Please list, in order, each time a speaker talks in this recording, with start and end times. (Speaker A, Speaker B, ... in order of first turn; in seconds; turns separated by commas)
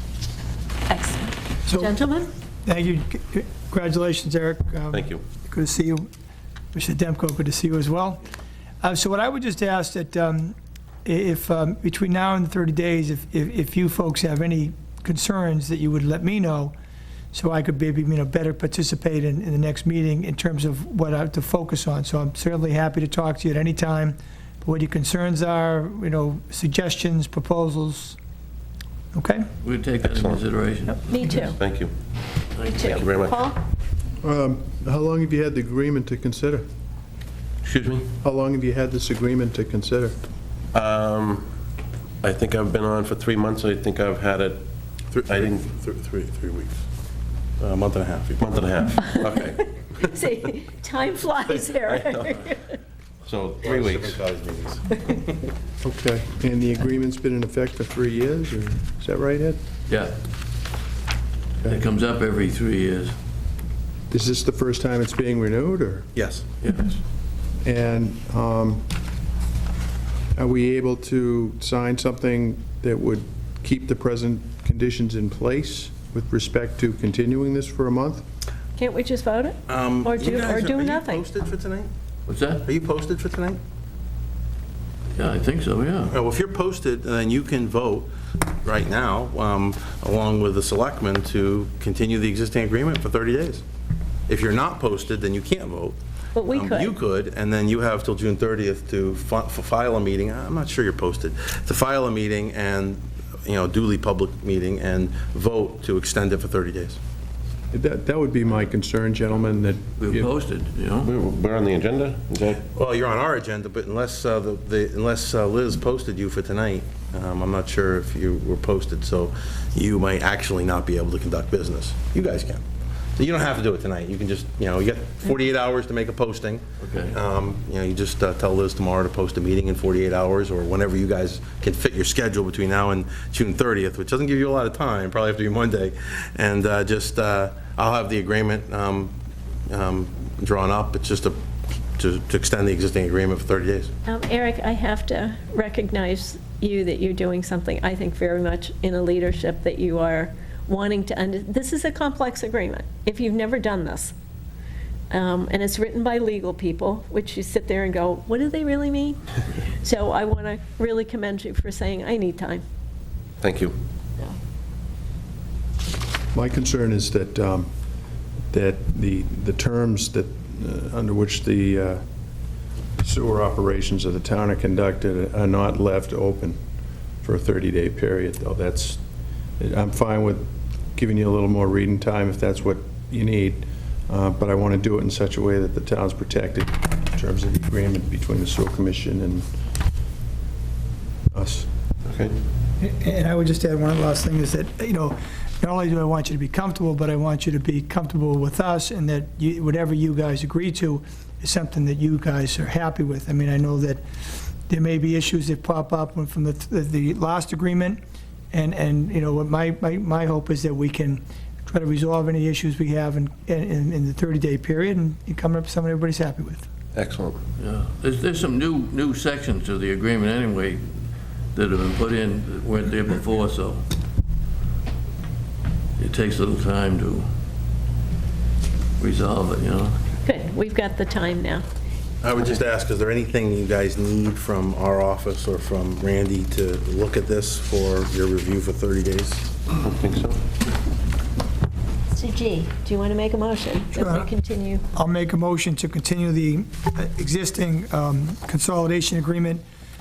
Speaker A: 0.9-2.3, Speaker B: 1.7-1.9, Speaker B: 2.6-6.1, Speaker C: 4.9-5.2, Speaker B: 6.7-8.2, Speaker B: 8.8-16.7, Speaker B: 17.3-28.2, Speaker B: 29.1-29.5, Speaker D: 29.6-31.1, Speaker C: 30.0-30.4, Speaker A: 30.9-31.6, Speaker C: 31.5-31.9, Speaker A: 32.7-33.6, Speaker C: 32.8-33.5, Speaker E: 34.2-36.6, Speaker C: 37.6-38.1, Speaker E: 38.2-40.2, Speaker C: 40.7-41.5, Speaker C: 42.2-44.6, Speaker F: 45.1-46.8, Speaker C: 45.3-45.6, Speaker F: 47.6-48.6, Speaker C: 48.4-50.1, Speaker A: 49.5-52.8, Speaker C: 51.5-52.3, Speaker C: 53.2-54.2, Speaker F: 53.6-55.4, Speaker E: 55.8-59.6, Speaker D: 59.9-60.1, Speaker D: 61.6-63.1, Speaker E: 64.1-66.1, Speaker F: 66.2-66.4, Speaker D: 66.6-67.0, Speaker E: 67.6-68.8, Speaker E: 70.3-78.2, Speaker A: 78.8-81.2, Speaker F: 79.7-81.9, Speaker D: 82.3-82.7, Speaker F: 82.6-83.6, Speaker D: 85.2-86.1, Speaker F: 86.1-88.1, Speaker F: 88.6-93.6, Speaker F: 94.3-96.0, Speaker A: 96.3-96.9, Speaker F: 96.5-107.0, Speaker E: 107.7-110.3, Speaker D: 110.0-111.1, Speaker C: 111.0-112.6, Speaker F: 112.7-122.6, Speaker F: 123.2-139.1, Speaker D: 126.8-127.1, Speaker F: 139.7-141.4, Speaker F: 142.0-143.9, Speaker A: 144.1-154.1, Speaker A: 155.1-159.2, Speaker A: 159.8-162.6, Speaker C: 163.4-163.8, Speaker E: 166.3-167.7, Speaker E: 168.5-172.0, Speaker E: 173.0-176.6, Speaker E: 177.2-179.0, Speaker E: 179.6-189.4, Speaker E: 191.3-191.7, Speaker C: 192.0-192.3, Speaker B: 192.8-204.0, Speaker B: 204.7-208.0, Speaker B: 208.5-216.7, Speaker C: 216.9-217.4, Speaker D: 217.6-220.8, Speaker D: 221.5-223.8, Speaker D: 226.0-227.3, Speaker D: 229.0-230.0, Speaker A: 230.2-231.6, Speaker F: 232.2-239.5, Speaker C: 239.8-240.4, Speaker A: 242.1-244.8, Speaker B: 243.9-244.3, Speaker B: 244.9-249.6